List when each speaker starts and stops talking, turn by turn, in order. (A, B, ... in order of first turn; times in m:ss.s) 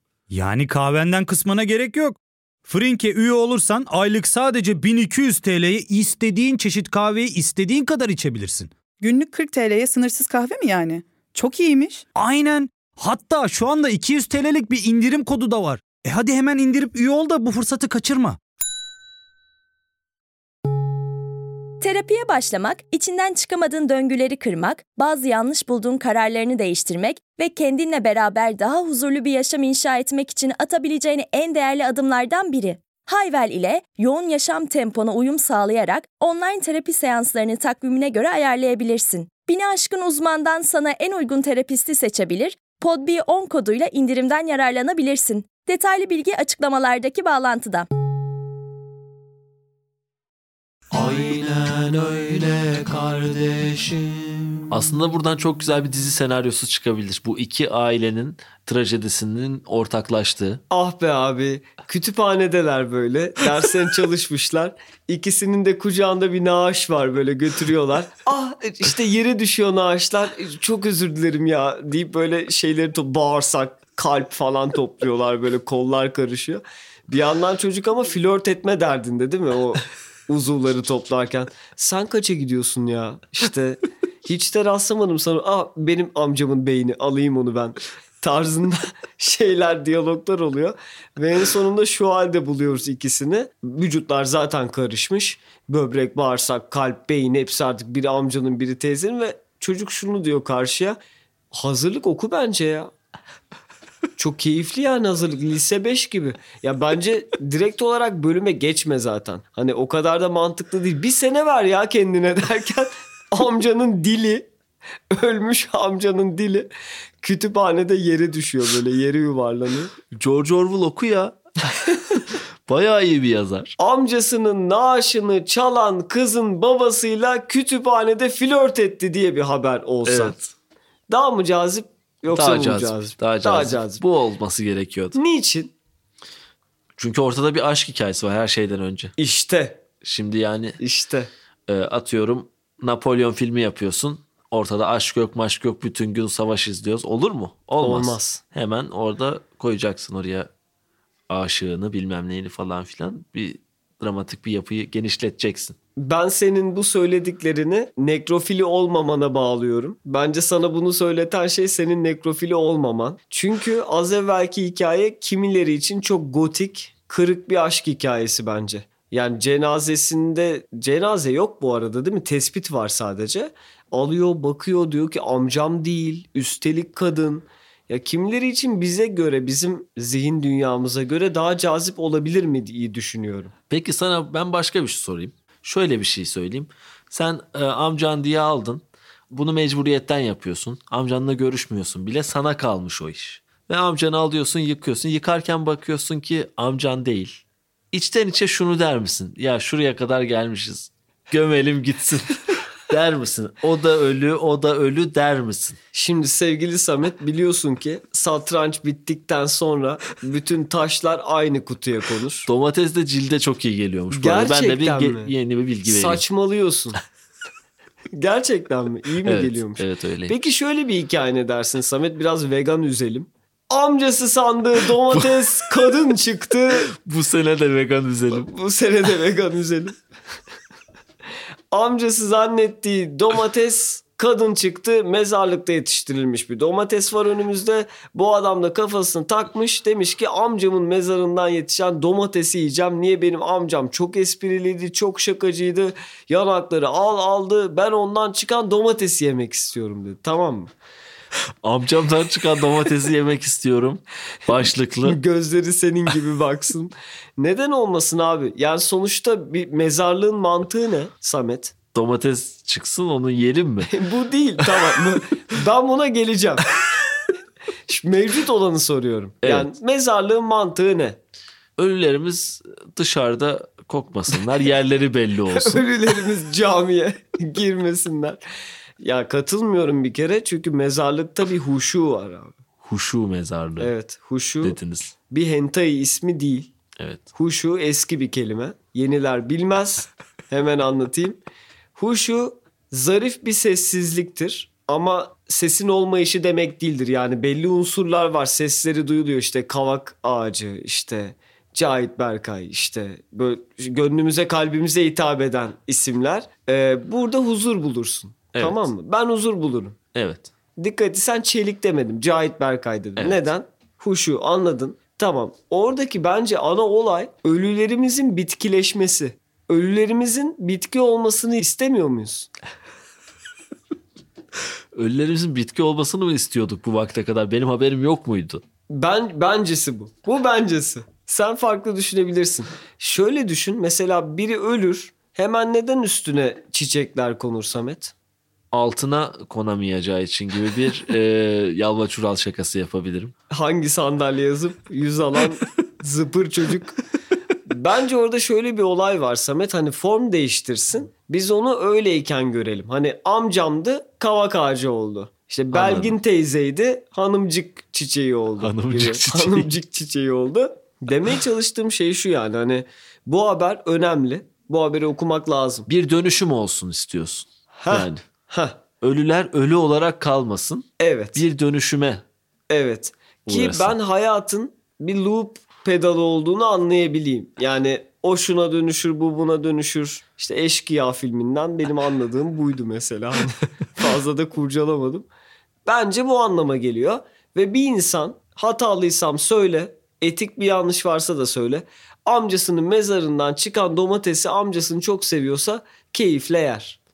0:00.3-0:08.7 A
0:09.0-0:12.0 B
0:12.1-0:18.4 A
0:21.8-0:47.9 C
0:50.9-1:00.6 D
1:00.7-1:41.0 E
1:41.5-1:42.9 E
1:44.2-1:54.5 E
1:55.1-1:56.7 E
1:57.2-1:59.9 E
2:00.1-2:03.7 D
2:03.8-2:10.4 E
2:10.0-2:10.5 D
2:11.1-2:14.0 E
2:12.3-2:15.2 D
2:15.1-2:15.7 E
2:17.0-2:19.1 D
2:19.2-2:19.8 E
2:20.0-2:20.8 D
2:20.8-2:21.3 E
2:21.7-2:30.5 D
2:27.8-2:28.4 E
2:31.3-2:35.8 D
2:36.0-3:03.5 E
3:03.7-3:17.4 D
3:17.9-3:22.3 D
3:22.9-3:25.8 D
3:25.9-3:32.5 E
3:32.4-3:36.2 D
3:34.1-3:35.3 E
3:35.8-3:37.0 E
3:38.1-3:46.9 E
3:39.2-3:40.3 D
3:46.8-3:48.5 D
3:48.4-3:50.0 E
3:51.7-4:10.7 E
4:11.6-4:15.2 D
4:15.0-4:21.7 E
4:21.9-4:23.9 D
4:23.9-4:26.7 E
4:27.9-4:31.2 E
4:29.4-4:29.7 D
4:31.8-4:35.8 D
4:35.5-4:38.4 E
4:39.0-4:42.5 E
4:42.8-4:44.0 D
4:43.8-4:44.8 E
4:44.6-4:45.1 D
4:45.3-4:46.7 E
4:47.0-4:47.3 D
4:47.3-4:51.4 E
4:52.0-5:10.0 E
5:08.5-5:08.9 D
5:10.1-5:10.5 D
5:10.8-5:22.5 E
5:13.2-5:13.5 D
5:24.9-5:28.6 D
5:28.9-5:38.1 E
5:38.7-5:43.3 D
5:43.5-5:47.0 E
5:47.7-6:05.9 E
5:55.7-5:56.2 D
5:58.6-5:59.7 D
6:05.9-6:08.2 D
6:07.8-6:08.8 E
6:09.0-6:12.2 D
6:11.0-6:11.4 E
6:12.7-6:25.3 E
6:13.4-6:14.0 D
6:25.8-6:37.0 E